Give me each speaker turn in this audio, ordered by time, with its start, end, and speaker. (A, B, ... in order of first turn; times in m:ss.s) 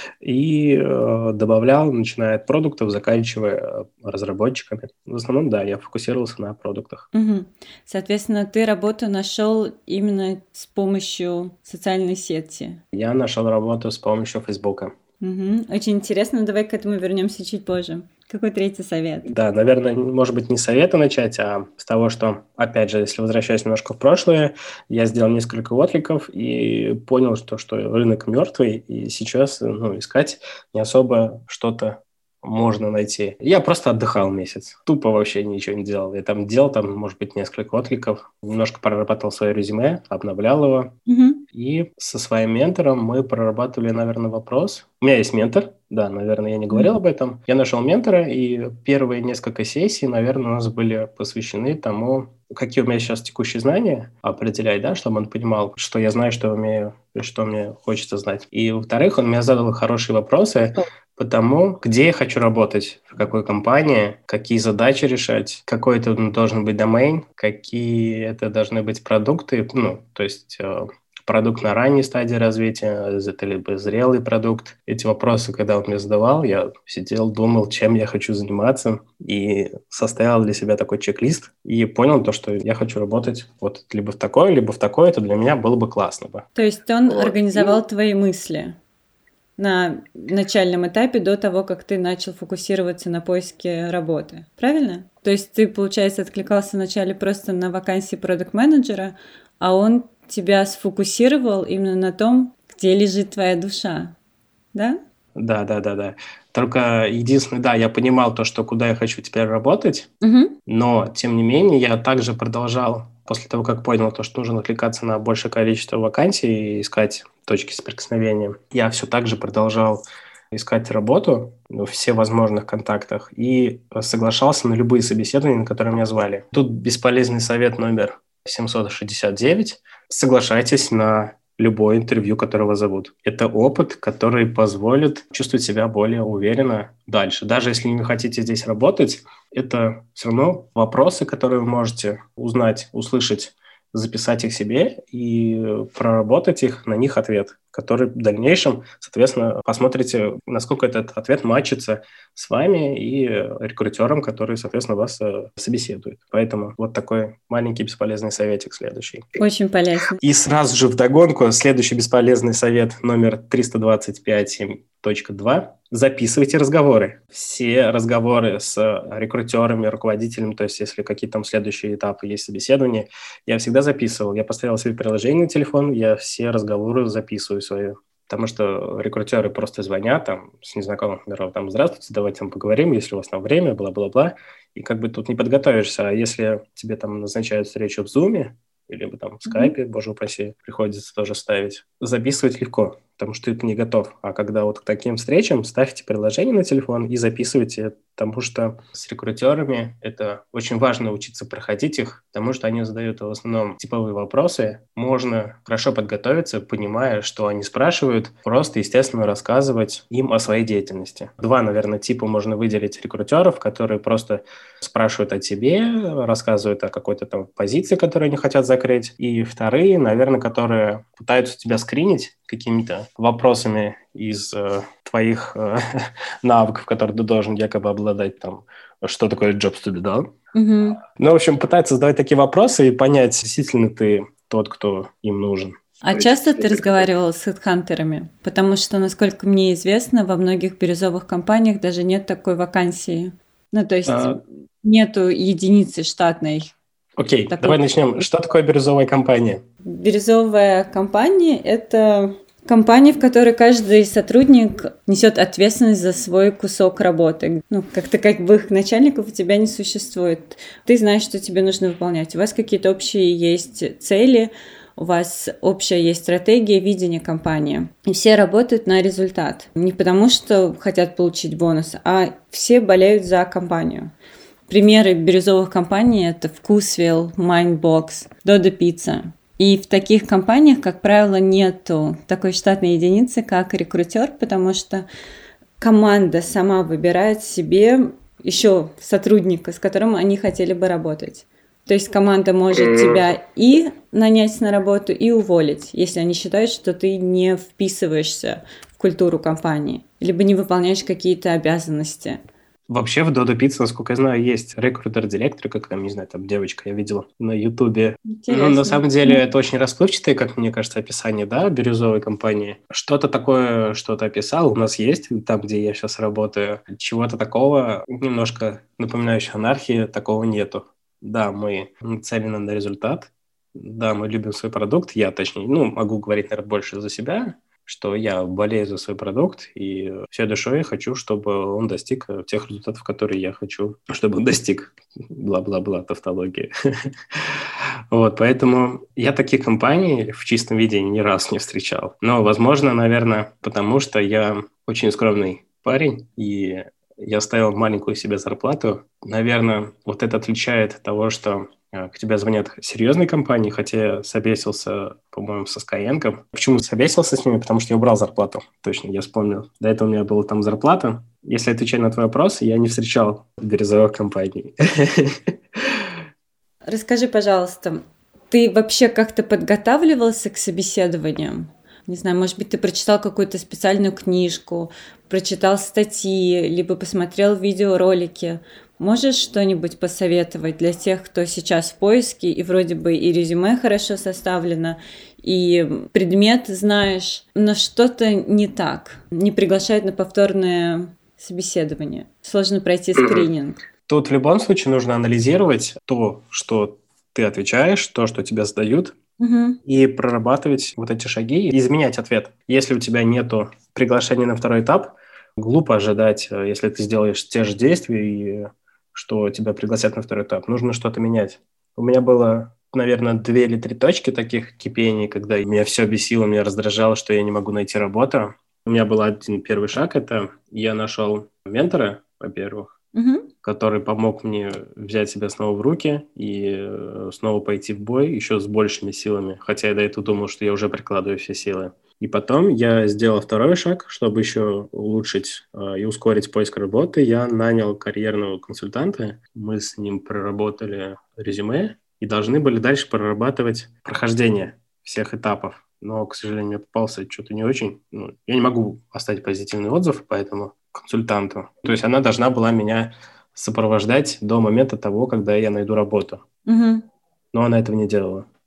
0:00.2-0:07.1 A
0:07.1-0:12.8 B
0:12.9-0:14.9 A
0:15.2-0:19.3 B
0:19.2-0:40.9 A
0:41.1-0:41.4 B
0:41.5-1:26.4 A
1:26.5-1:28.8 B
1:27.1-1:27.8 A
1:29.6-1:44.1 B
1:45.4-1:50.1 A
1:50.2-1:50.6 B
1:50.7-2:39.2 A
2:39.4-2:40.2 B
2:40.2-3:50.3 A
3:09.4-3:09.7 B
3:50.5-3:51.0 B
3:51.2-3:57.0 A
3:56.0-4:06.7 B
4:04.1-4:04.4 A
4:07.2-4:09.6 A
4:07.5-4:07.8 B
4:09.8-4:34.1 B
4:34.7-4:45.1 B
4:45.8-5:02.4 B
5:02.9-5:36.7 A
5:08.2-5:09.4 B
5:38.1-6:06.0 A
6:06.8-6:33.8 B
6:33.2-6:33.5 A
6:34.1-6:39.2 A
6:39.4-6:39.8 B
6:39.8-7:02.9 A
7:03.2-7:03.5 B
7:03.6-7:36.4 A
7:36.7-7:37.1 B
7:37.5-7:38.4 A